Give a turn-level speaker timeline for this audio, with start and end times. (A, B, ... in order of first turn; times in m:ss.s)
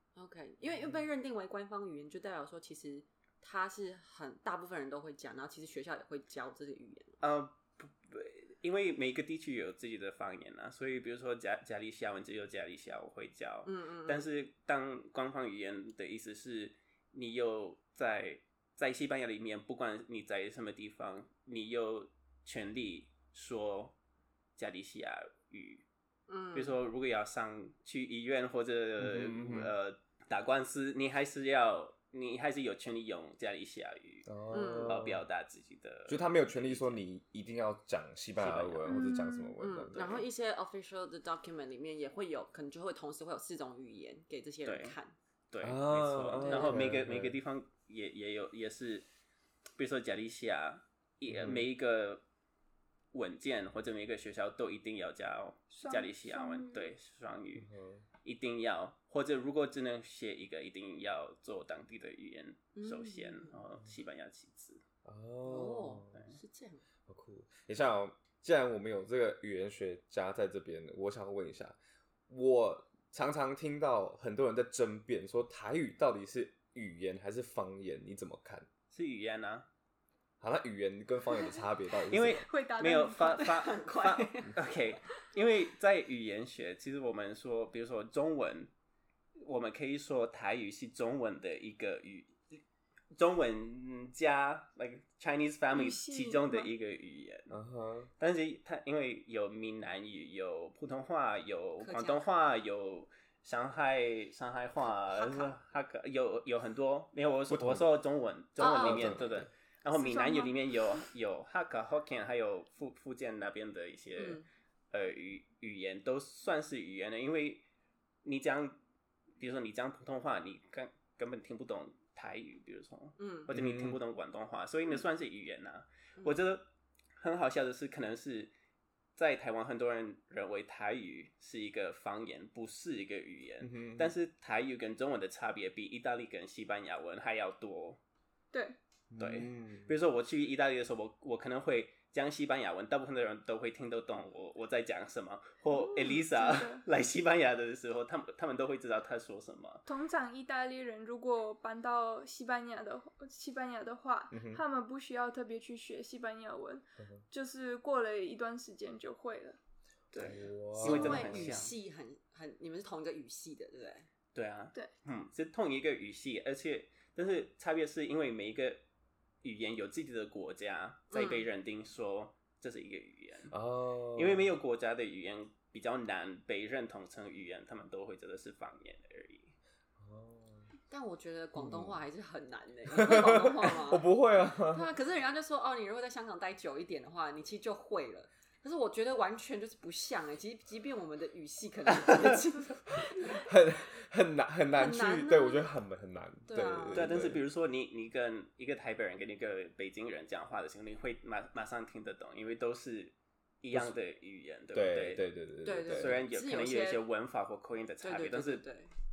0:00.2-0:07.2 A
0:07.2-0:24.0 B
0:13.7-0:14.3 A
0:24.6-0:25.8 B
0:26.3-0:26.8 A
0:26.5-0:34.3 B
0:29.0-0:29.7 C
0:34.3-0:35.3 C
0:34.5-0:35.0 A
0:34.8-0:37.0 B
0:36.1-0:40.2 C
0:38.4-0:38.9 B
0:38.9-0:39.6 D
0:39.6-0:45.1 A
0:44.6-0:45.0 B
0:45.5-0:49.1 B
0:45.6-0:47.4 C
0:49.8-0:52.2 B
0:51.3-0:51.7 C
0:53.1-0:57.7 B
0:55.7-0:56.9 D
0:57.6-0:58.0 C
0:58.2-1:04.8 B
1:02.8-1:03.5 A
1:05.0-1:06.2 C
1:05.4-1:06.8 A
1:07.1-1:11.8 C
1:12.3-1:18.7 C
1:18.9-1:19.7 B
1:20.4-1:22.4 C
1:22.1-1:28.7 B
1:22.3-1:23.5 D
1:23.4-1:24.7 A
1:29.4-1:32.6 B
1:33.1-1:37.5 B
1:35.7-1:36.7 D
1:37.5-1:38.1 C
1:38.2-1:57.6 B
1:41.8-1:42.2 A
1:45.1-1:45.5 A
1:47.5-1:47.8 C
1:48.6-1:49.4 A
1:48.6-1:49.5 C
1:49.9-1:50.6 D
1:54.2-1:54.4 A
1:58.2-1:58.8 B
1:59.4-2:06.6 B
2:03.2-2:03.5 A
2:03.5-2:04.0 C
2:07.2-2:08.5 B
2:09.2-2:18.0 B
2:13.6-2:14.1 C
2:18.5-2:18.8 D
2:19.1-2:19.9 C
2:19.2-2:29.8 B
2:25.7-2:26.8 D
2:29.9-2:39.6 D
2:34.3-2:34.6 C
2:40.1-2:41.7 B
2:40.2-2:41.6 C
2:40.8-2:44.1 A
2:44.4-2:48.8 B
2:49.4-2:53.5 B
2:51.1-2:51.5 A
2:53.5-2:54.5 C
2:54.2-2:59.5 B
3:00.0-3:00.7 C
3:00.9-3:04.1 A
3:01.6-3:02.0 C
3:02.9-3:04.9 C
3:04.7-3:12.8 A
3:12.9-3:17.4 C
3:14.7-3:15.6 A
3:16.5-3:17.2 A
3:16.9-3:25.2 B
3:24.7-3:26.2 C
3:25.6-3:27.0 A
3:25.8-3:28.6 B
3:28.0-3:28.9 A